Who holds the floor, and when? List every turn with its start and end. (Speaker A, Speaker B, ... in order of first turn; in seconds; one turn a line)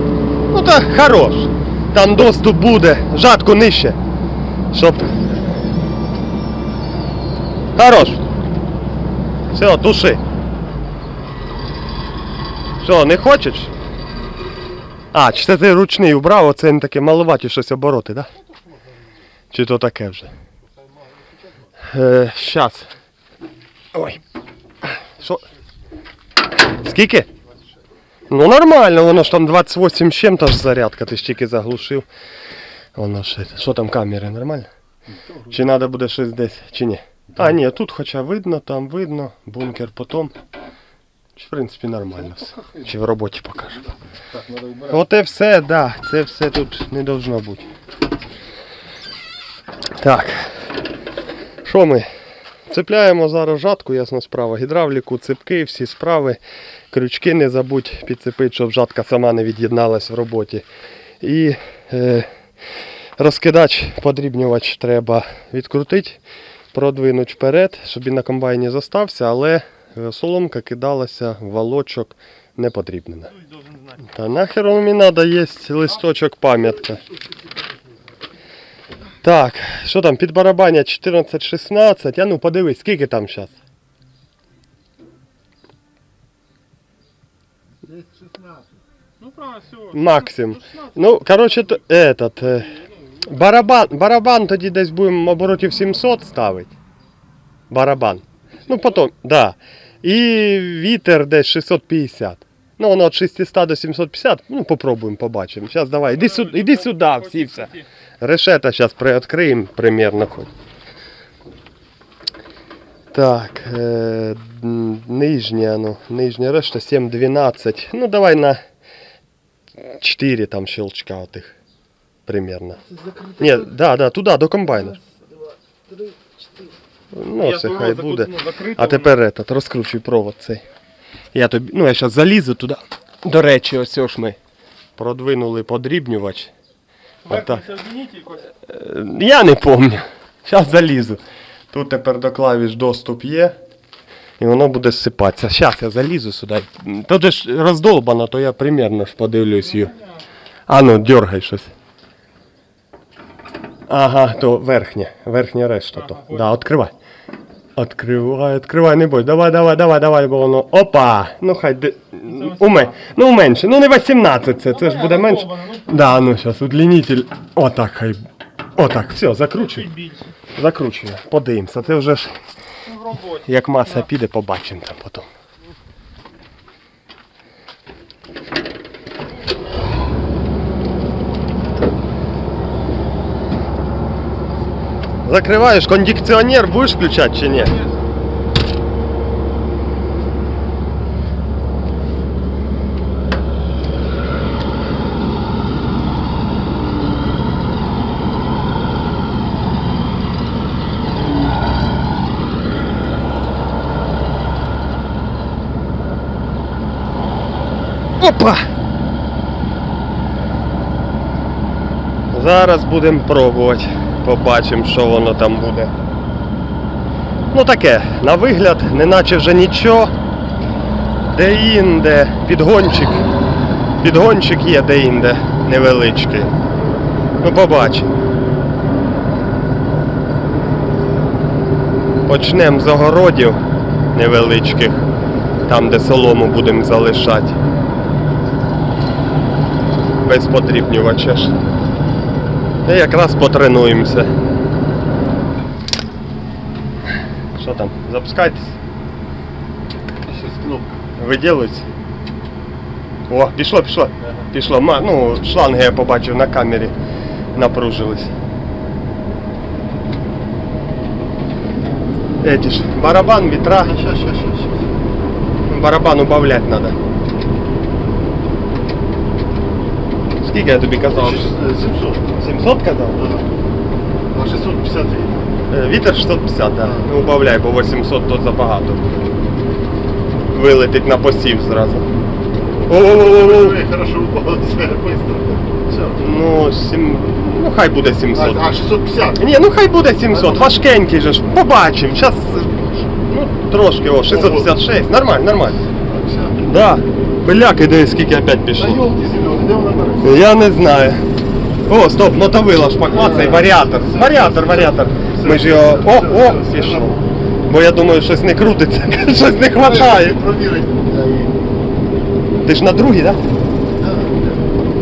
Speaker A: 0.5-4.0
Speaker A: 4.7-5.1
Speaker A: 7.8-8.2
Speaker A: 9.5-10.2
Speaker A: 12.8-13.7
Speaker A: 15.1-18.3
Speaker A: 19.5-20.3
Speaker B: 20.8-21.4
Speaker A: 21.9-22.9
Speaker A: 23.9-24.2
Speaker A: 25.0-25.4
Speaker A: 26.8-27.3
Speaker A: 28.3-32.1
Speaker A: 33.0-34.7
Speaker A: 35.5-40.3
Speaker A: 41.4-43.8
Speaker B: 42.4-42.9
Speaker B: 44.3-45.0
Speaker A: 44.9-47.7
Speaker A: 50.0-50.6
Speaker A: 51.6-52.1
Speaker A: 52.7-56.4
Speaker A: 56.9-60.6
Speaker A: 61.2-62.3
Speaker A: 63.2-66.2
Speaker A: 66.7-73.3
Speaker A: 74.0-77.0
Speaker A: 79.2-83.5
Speaker B: 87.9-88.7
Speaker C: 89.2-90.9
Speaker A: 89.9-96.7
Speaker A: 97.7-110.5
Speaker C: 106.1-107.8
Speaker A: 113.1-118.6
Speaker A: 119.9-121.5
Speaker A: 122.3-122.8
Speaker C: 123.1-123.7
Speaker A: 123.4-125.0
Speaker A: 127.1-130.6
Speaker C: 127.4-129.1
Speaker A: 131.3-134.4
Speaker A: 135.0-136.5
Speaker C: 137.2-138.4
Speaker A: 137.3-137.6
Speaker A: 138.7-141.2
Speaker A: 141.7-143.6
Speaker A: 144.4-149.9
Speaker A: 150.7-151.7
Speaker A: 153.9-156.9
Speaker C: 156.0-156.5
Speaker A: 157.8-168.2
Speaker C: 162.3-162.9
Speaker C: 164.7-166.2
Speaker A: 168.8-169.9
Speaker C: 169.6-170.3
Speaker A: 170.6-172.3
Speaker C: 172.9-174.1
Speaker A: 173.4-175.3
Speaker A: 185.2-187.8
Speaker A: 208.2-208.7
Speaker A: 212.3-215.9
Speaker A: 217.5-220.1
Speaker A: 221.3-223.2
Speaker A: 224.0-226.5
Speaker A: 227.4-228.1
Speaker A: 232.3-233.6
Speaker A: 234.1-235.0
Speaker A: 235.7-237.6
Speaker A: 240.2-241.5
Speaker A: 242.9-244.3
Speaker A: 247.6-248.8
Speaker B: 250.3-251.0
Speaker A: 251.2-251.9
Speaker A: 253.3-256.9
Speaker A: 257.6-258.3
Speaker A: 262.4-263.9
Speaker B: 263.8-264.9
Speaker A: 265.7-267.0
Speaker A: 270.4-271.5
Speaker B: 271.1-272.3
Speaker A: 272.4-273.2
Speaker B: 273.1-273.5
Speaker B: 274.3-275.5
Speaker A: 275.7-279.3
Speaker A: 280.5-282.1
Speaker B: 282.8-286.3
Speaker A: 282.9-283.8
Speaker A: 286.2-288.7
Speaker B: 288.3-289.5
Speaker A: 289.4-295.8
Speaker B: 290.3-290.8
Speaker B: 292.4-293.1
Speaker B: 294.2-294.8
Speaker B: 296.1-296.8
Speaker A: 296.6-299.1
Speaker B: 298.8-300.4
Speaker A: 300.2-301.2
Speaker A: 301.9-307.1
Speaker B: 303.1-307.3
Speaker A: 307.7-310.4
Speaker B: 309.8-311.6
Speaker A: 312.6-313.4
Speaker B: 314.0-314.6